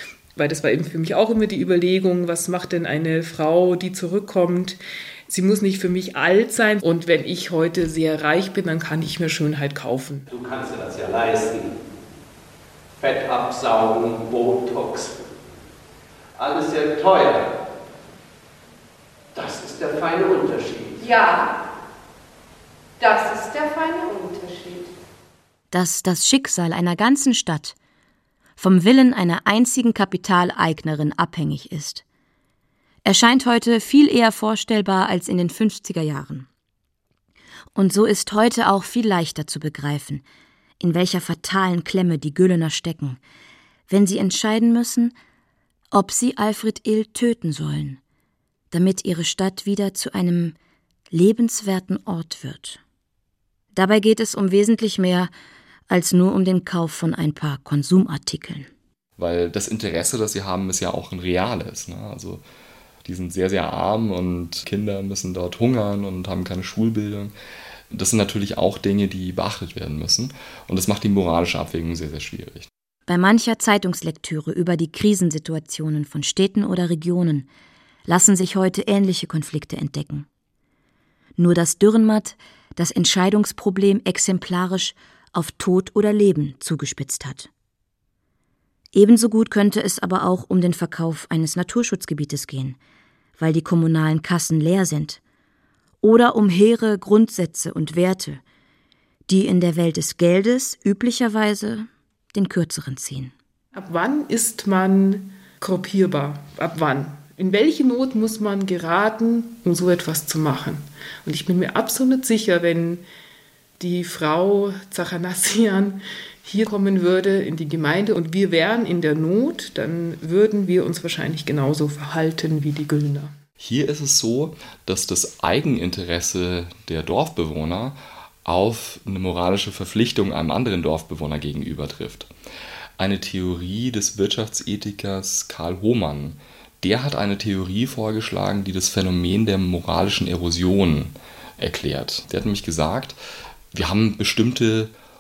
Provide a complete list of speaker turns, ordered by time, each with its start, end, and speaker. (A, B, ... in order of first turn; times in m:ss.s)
0:00.3-0:10.3 A
0:10.3-0:11.7 B
0:13.0-0:15.2 B
0:16.4-0:17.5 B
0:19.3-0:21.0 B
0:21.0-0:21.5 C
0:23.0-0:24.9 C
0:25.7-0:27.8 D
0:28.6-0:32.0 D
0:33.0-0:36.5 D
0:37.7-0:40.2 D
0:40.8-0:43.2 D
0:43.9-0:45.1 D
0:45.9-0:48.0 D
0:48.7-0:50.5 D
0:51.1-0:52.8 D
0:53.7-0:55.3 D
0:55.9-0:58.7 D
0:59.2-1:02.4 E
1:03.0-1:07.3 E
1:07.9-1:12.7 E
1:13.1-1:17.5 D
1:18.1-1:20.3 D
1:21.4-1:27.5 D
1:28.9-1:32.8 D
1:33.4-1:35.2 D
1:36.0-1:38.4 D
1:39.3-1:43.3 D
1:43.7-1:53.0 A
1:53.8-2:03.3 A
2:03.6-2:12.3 E
2:13.0-2:23.2 E
2:23.7-2:24.9 E